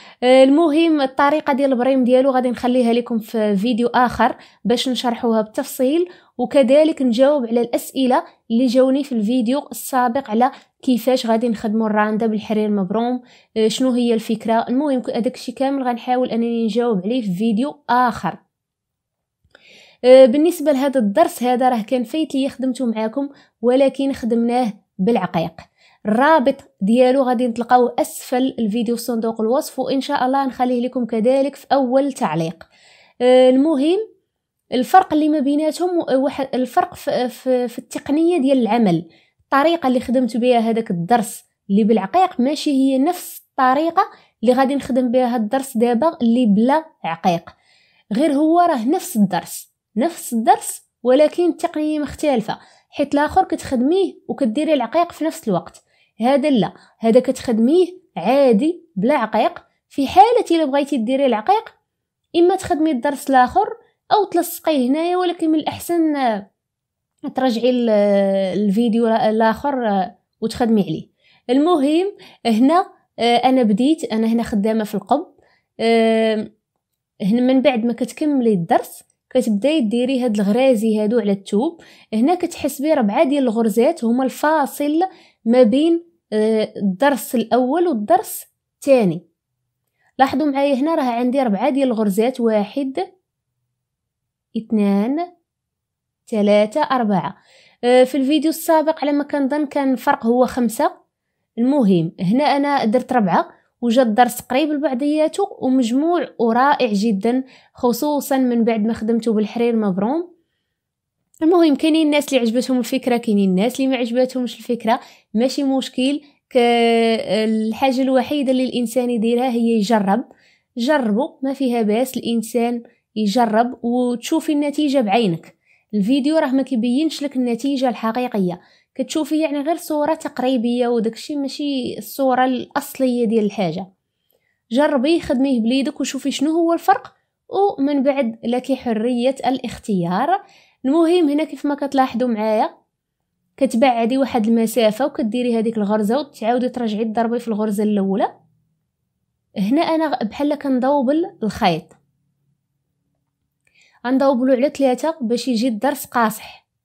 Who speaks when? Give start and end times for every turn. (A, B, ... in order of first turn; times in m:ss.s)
0:00.2-0:18.4 A
0:20.1-0:32.7 A
0:33.2-0:34.0 A
0:34.8-0:47.5 A
0:48.1-1:01.7 A
1:02.4-1:06.4 A
1:07.3-1:16.5 A
1:17.3-1:29.2 A
1:30.2-1:33.1 A
1:34.6-1:35.2 A
1:36.2-1:37.3 A
1:37.9-1:40.9 A
1:41.6-1:50.3 A
1:51.4-2:00.2 A
2:00.8-2:13.8 A
2:14.7-2:22.7 A
2:23.6-2:28.3 A
2:29.6-2:32.0 A
2:34.1-2:36.6 A